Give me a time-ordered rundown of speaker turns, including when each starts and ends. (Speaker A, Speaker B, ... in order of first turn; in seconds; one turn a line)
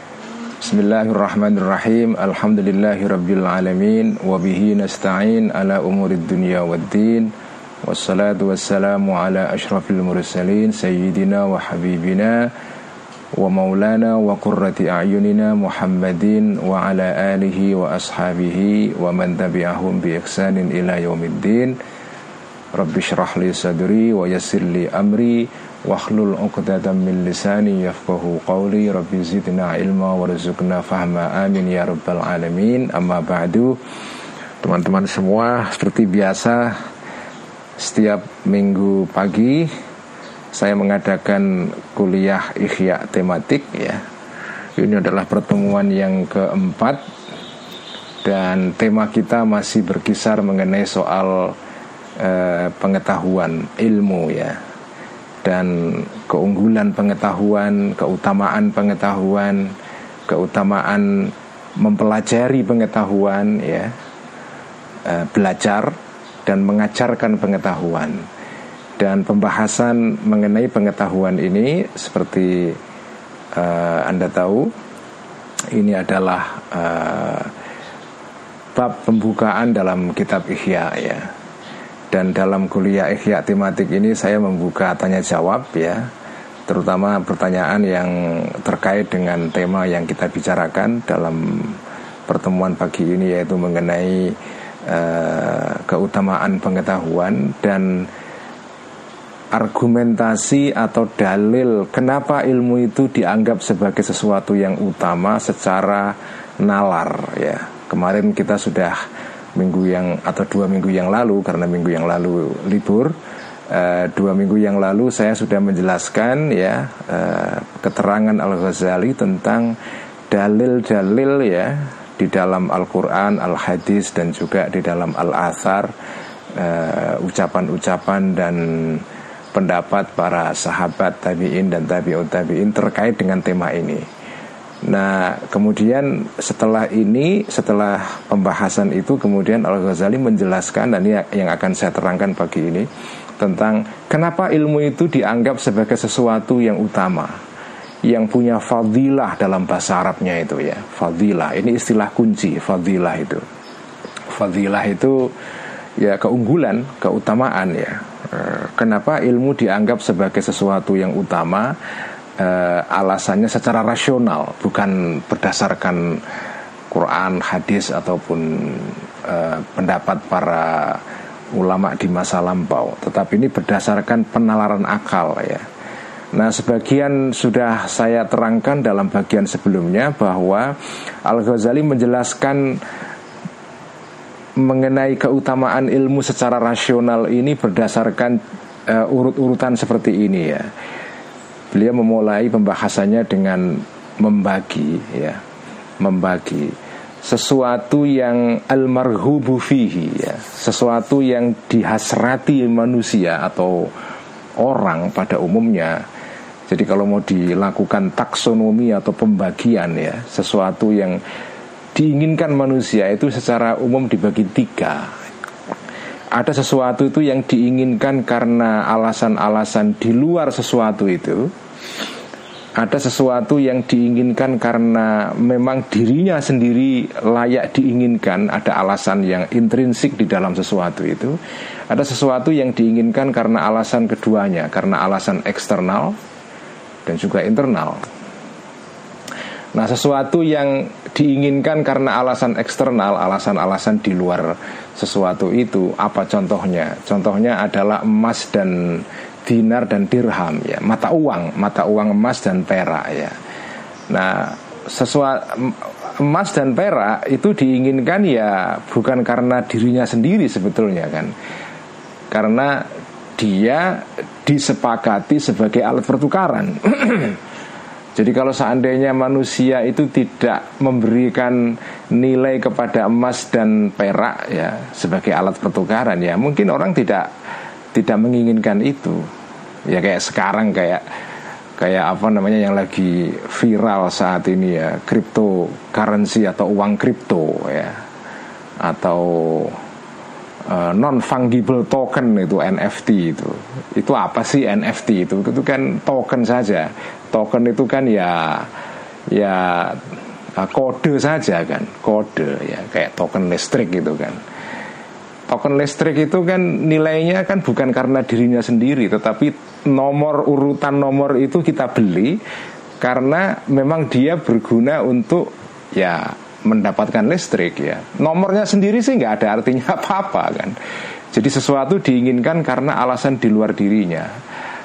Speaker A: 0.6-7.3
Speaker A: 7.8-12.5
Speaker A: 13.3-21.8
Speaker A: 22.7-33.8
Speaker A: 34.6-36.8
Speaker A: 37.8-39.7
Speaker A: 40.5-44.0
Speaker A: 44.8-47.0
Speaker A: 48.2-51.5
Speaker A: 52.2-54.6
Speaker A: 55.4-59.7
Speaker A: 60.3-63.9
Speaker A: 65.1-65.9
Speaker A: 66.5-68.2
Speaker A: 69.0-72.8
Speaker A: 73.5-74.7
Speaker A: 75.7-77.5
Speaker A: 78.8-81.3
Speaker A: 82.1-86.1
Speaker A: 86.7-94.3
Speaker A: 94.9-98.1
Speaker A: 99.5-109.0
Speaker A: 109.5-113.2
Speaker A: 113.7-119.7
Speaker A: 120.3-125.9
Speaker A: 126.5-134.0
Speaker A: 134.8-142.9
Speaker A: 143.4-147.3
Speaker A: 148.1-153.4
Speaker A: 154.3-155.3
Speaker A: 156.0-161.7
Speaker A: 162.4-166.2
Speaker A: 166.9-171.0
Speaker A: 171.6-175.6
Speaker A: 176.3-180.7
Speaker A: 181.2-182.8
Speaker A: 184.6-190.7
Speaker A: 191.7-195.4
Speaker A: 196.0-203.9
Speaker A: 204.6-206.0
Speaker A: 206.7-211.2
Speaker A: 211.9-215.1
Speaker A: 216.4-221.5
Speaker A: 222.8-231.4
Speaker A: 231.9-236.2
Speaker A: 237.1-238.0
Speaker A: 239.8-253.3
Speaker A: 254.1-261.3
Speaker A: 262.3-262.9
Speaker A: 263.4-267.4
Speaker A: 268.2-277.3
Speaker A: 277.9-279.3
Speaker A: 279.9-281.0
Speaker A: 281.8-287.9
Speaker A: 288.8-289.8
Speaker A: 290.7-298.7
Speaker A: 299.3-300.0
Speaker A: 300.6-304.4
Speaker A: 305.5-312.4
Speaker A: 313.0-320.8
Speaker A: 321.3-324.3